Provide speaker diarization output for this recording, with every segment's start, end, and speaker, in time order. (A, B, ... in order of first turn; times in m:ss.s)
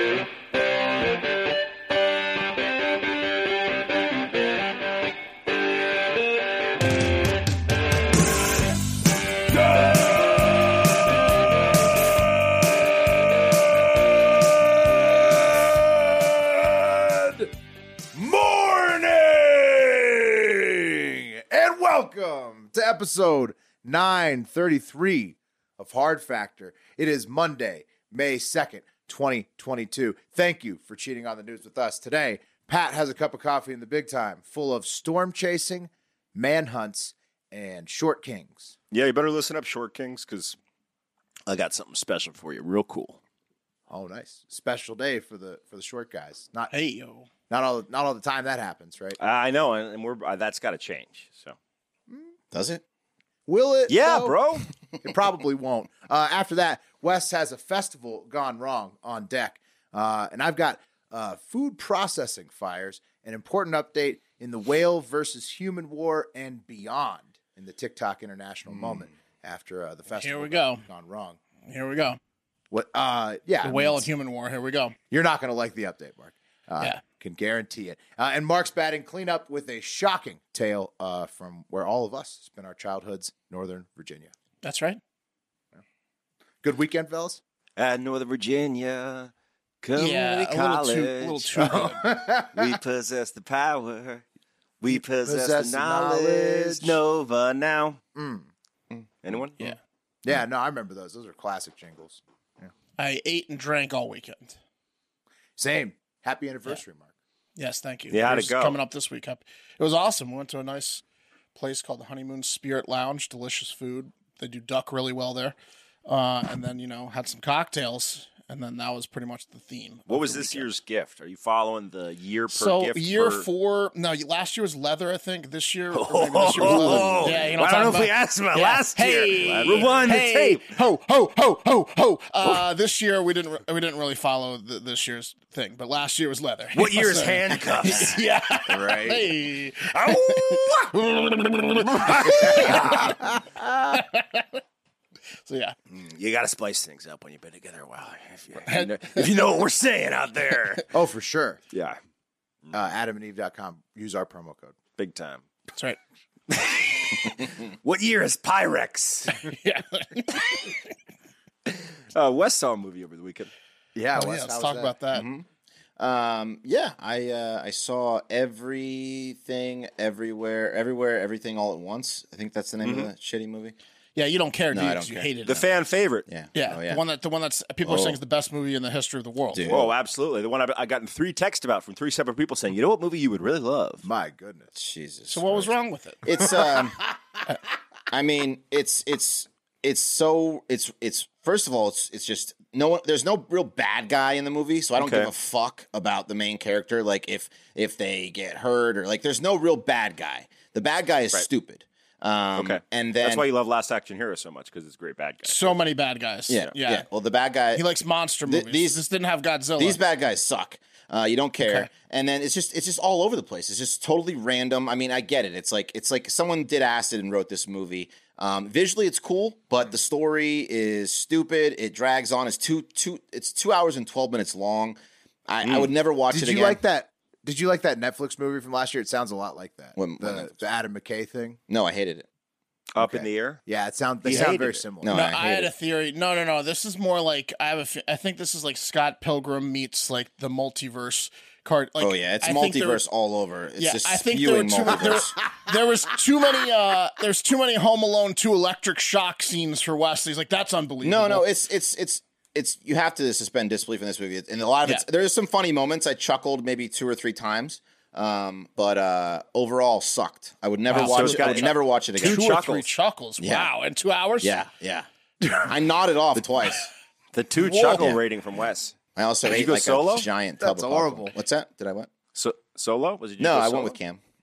0:14.3-0:17.5 A
0:18.1-0:38.7 A
0:38.9-0:40.6 B
0:41.5-0:43.2 B
0:43.9-0:46.7 A
0:46.7-0:47.3 C
0:47.5-0:49.2 A
0:49.2-0:51.6 B
0:52.5-0:52.8 D
0:53.5-0:54.4 A
0:53.9-0:54.7 B
0:55.0-1:11.4 A
1:08.8-1:09.0 D
1:10.1-1:10.8 C
1:11.7-1:12.2 C
1:12.7-1:14.0 A
1:13.6-1:15.0 C
1:15.1-1:24.3 A
1:24.6-1:25.0 C
1:26.6-1:27.4 A
1:27.8-1:29.3 B
1:29.8-1:31.9 B
1:30.0-1:32.1 C
1:31.6-1:32.8 A
1:32.5-1:34.2 B
1:34.8-1:38.0 B
1:34.9-1:37.0 A
1:38.2-1:38.5 A
1:39.2-1:39.6 B
1:40.2-1:42.7 A
1:43.0-1:44.6 C
1:45.6-1:47.1 A
1:47.6-1:51.0 C
1:48.1-1:48.8 B
1:51.5-1:55.5 C
1:56.1-2:00.7 C
2:00.1-2:03.4 B
2:02.5-2:23.2 C
2:05.9-2:10.6 B
2:06.8-2:07.4 D
2:16.7-2:19.3 B
2:19.9-2:20.9 B
2:21.9-2:23.1 B
2:22.4-2:24.0 A
2:23.9-2:24.6 C
2:25.5-2:25.7 C
2:25.9-2:30.9 B
2:28.6-2:29.3 C
2:30.9-2:31.6 A
2:31.7-2:32.0 B
2:32.7-2:34.7 A
2:35.0-2:35.4 B
2:36.5-2:39.4 B
2:39.4-2:40.7 C
2:41.7-2:43.5 B
2:43.9-2:44.9 A
2:44.2-2:45.3 C
2:45.1-2:45.4 D
2:46.0-2:53.7 D
2:52.8-2:53.1 B
2:54.2-2:55.6 C
2:54.7-2:55.6 D
2:55.4-2:56.2 B
2:56.3-2:57.0 D
2:56.5-2:59.8 C
2:57.8-2:58.2 D
2:59.5-2:59.9 D
2:59.7-3:04.0 B
3:04.0-3:04.7 A
3:04.7-3:05.7 D
3:05.3-3:06.2 C
3:06.2-3:07.0 D
3:08.1-3:23.4 D
3:15.0-3:15.3 B
3:22.5-3:25.8 B
3:25.4-3:27.0 C
3:26.5-3:27.8 D
3:27.7-3:30.0 C
3:28.4-3:29.0 D
3:29.8-3:46.8 D
3:31.6-3:31.9 C
3:45.6-3:45.9 B
3:46.3-3:51.6 A
3:50.0-3:50.6 D
3:51.7-3:52.3 D
3:52.9-3:53.6 B
3:53.0-3:53.3 D
3:53.7-3:55.3 A
3:54.2-3:54.8 B
3:55.0-3:55.7 D
3:55.1-4:03.0 C
4:02.0-4:05.4 D
4:03.8-4:11.4 C
4:11.0-4:22.6 D
4:20.9-4:24.6 C
4:20.9-4:22.9 B
4:23.4-4:23.7 D
4:24.4-4:26.9 D
4:27.3-4:30.3 B
4:27.6-4:28.2 C
4:27.9-4:28.2 D
4:29.1-4:32.1 D
4:30.6-4:31.4 A
4:32.3-4:34.0 B
4:33.4-4:34.2 D